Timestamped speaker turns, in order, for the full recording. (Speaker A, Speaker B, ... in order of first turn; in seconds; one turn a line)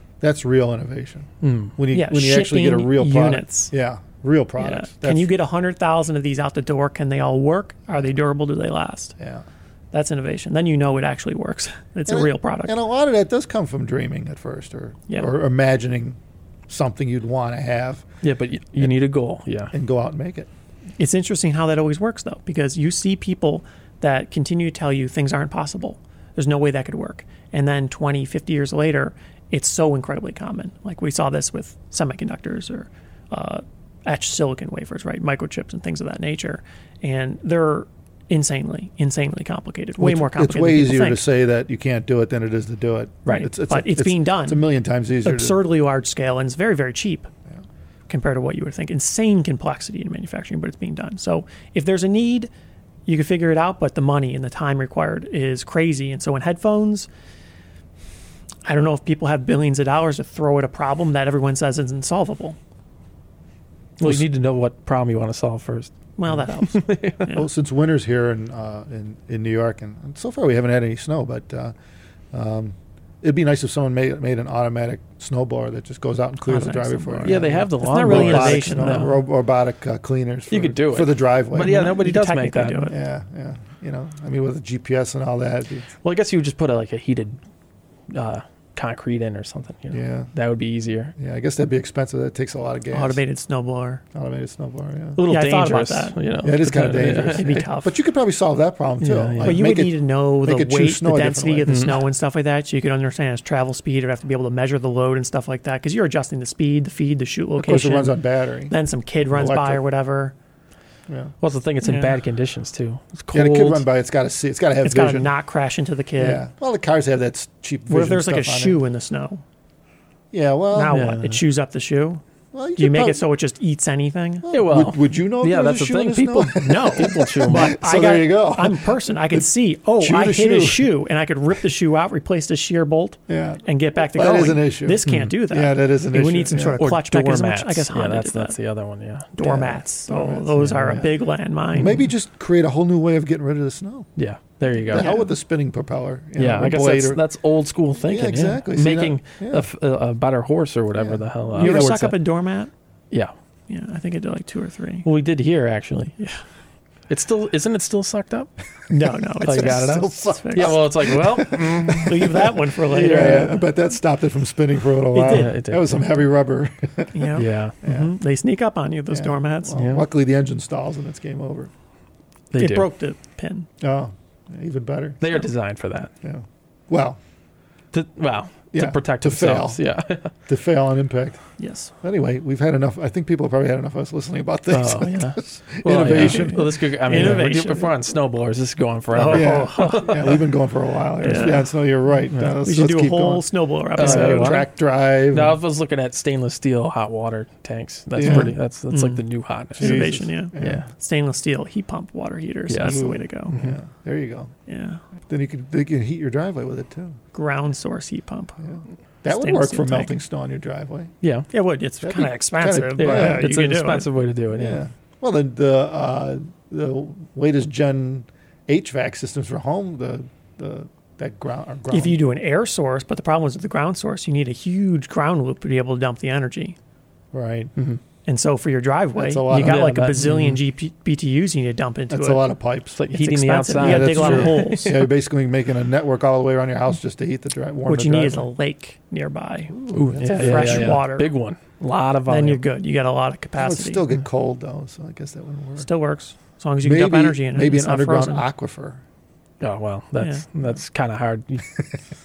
Speaker A: 0.2-5.3
Speaker B: 1.4-1.7
Speaker C: 1.9-3.7
Speaker C: 4.6-9.2
Speaker A: 9.2-9.4
Speaker C: 9.9-12.7
Speaker A: 12.1-18.0
Speaker B: 18.2-19.7
Speaker A: 19.7-20.5
Speaker C: 21.0-41.2
Speaker A: 40.0-45.6
Speaker C: 43.3-44.6
Speaker C: 45.2-47.3
Speaker C: 48.1-52.5
Speaker C: 53.0-57.1
Speaker C: 58.6-62.6
Speaker B: 64.0-67.3
Speaker C: 66.2-67.5
Speaker A: 67.3-71.7
Speaker A: 72.3-81.9
Speaker C: 76.5-79.2
Speaker B: 77.2-79.2
Speaker B: 80.5-82.9
Speaker C: 81.6-83.0
Speaker A: 82.9-85.8
Speaker B: 86.0-87.4
Speaker B: 88.1-91.1
Speaker A: 89.9-90.3
Speaker A: 91.2-93.2
Speaker C: 92.9-94.0
Speaker A: 94.1-95.2
Speaker B: 95.2-97.6
Speaker C: 95.2-96.2
Speaker A: 96.4-101.8
Speaker C: 97.3-98.0
Speaker B: 99.0-99.6
Speaker C: 99.4-110.3
Speaker B: 101.7-102.0
Speaker A: 107.6-108.7
Speaker A: 109.3-109.8
Speaker A: 111.1-111.3
Speaker B: 111.4-113.8
Speaker C: 111.8-112.2
Speaker A: 113.3-115.3
Speaker C: 114.8-116.4
Speaker A: 116.2-118.8
Speaker C: 117.9-119.4
Speaker A: 120.3-121.0
Speaker C: 120.7-122.2
Speaker B: 120.9-121.4
Speaker A: 122.5-123.2
Speaker C: 122.8-124.5
Speaker A: 124.4-129.4
Speaker B: 124.5-127.8
Speaker C: 126.6-138.6
Speaker A: 130.0-130.9
Speaker A: 133.3-136.8
Speaker B: 136.7-139.3
Speaker C: 139.3-142.0
Speaker A: 139.4-141.1
Speaker B: 140.7-140.9
Speaker A: 141.7-144.1
Speaker B: 144.2-145.1
Speaker A: 144.8-147.2
Speaker C: 144.9-145.3
Speaker B: 146.4-152.2
Speaker A: 148.0-149.7
Speaker A: 150.9-151.9
Speaker C: 151.5-152.7
Speaker C: 153.7-155.1
Speaker B: 155.0-156.4
Speaker B: 157.1-158.5
Speaker C: 158.9-160.8
Speaker B: 159.4-162.3
Speaker A: 159.4-168.1
Speaker C: 162.0-163.7
Speaker B: 162.9-163.5
Speaker C: 165.1-165.5
Speaker B: 165.2-166.0
Speaker C: 167.1-169.8
Speaker B: 167.3-167.8
Speaker A: 169.1-171.7
Speaker B: 169.7-170.0
Speaker B: 172.5-172.8
Speaker C: 172.6-173.7
Speaker A: 173.8-175.3
Speaker B: 175.2-176.1
Speaker A: 176.2-177.2
Speaker B: 177.9-180.3
Speaker A: 178.7-179.8
Speaker A: 180.5-181.4
Speaker C: 181.6-181.9
Speaker A: 182.0-187.4
Speaker B: 184.7-190.4
Speaker C: 186.1-187.9
Speaker C: 189.1-190.3
Speaker A: 189.2-193.4
Speaker C: 191.2-191.7
Speaker C: 192.6-194.6
Speaker B: 194.0-194.7
Speaker A: 194.0-195.6
Speaker B: 195.3-200.8
Speaker A: 198.2-198.6
Speaker C: 198.2-199.2
Speaker A: 199.8-200.8
Speaker C: 199.8-203.6
Speaker B: 202.7-203.8
Speaker A: 202.8-204.5
Speaker C: 204.7-205.0
Speaker A: 205.3-207.2
Speaker C: 207.3-210.1
Speaker A: 209.2-211.1
Speaker B: 211.2-211.5
Speaker C: 211.5-214.1
Speaker A: 212.0-213.5
Speaker B: 213.0-214.8
Speaker A: 214.5-222.2
Speaker C: 221.9-226.8
Speaker A: 227.3-227.7
Speaker C: 228.2-232.5
Speaker A: 229.2-230.4
Speaker B: 229.5-230.6
Speaker A: 232.1-233.0
Speaker B: 232.9-235.1
Speaker C: 233.1-235.0
Speaker A: 233.8-238.5
Speaker C: 237.8-241.3
Speaker A: 239.7-241.0
Speaker B: 239.9-242.6
Speaker C: 242.2-244.0
Speaker A: 243.6-245.9
Speaker C: 245.8-248.4
Speaker A: 246.8-249.0
Speaker B: 249.6-251.8
Speaker C: 250.2-250.4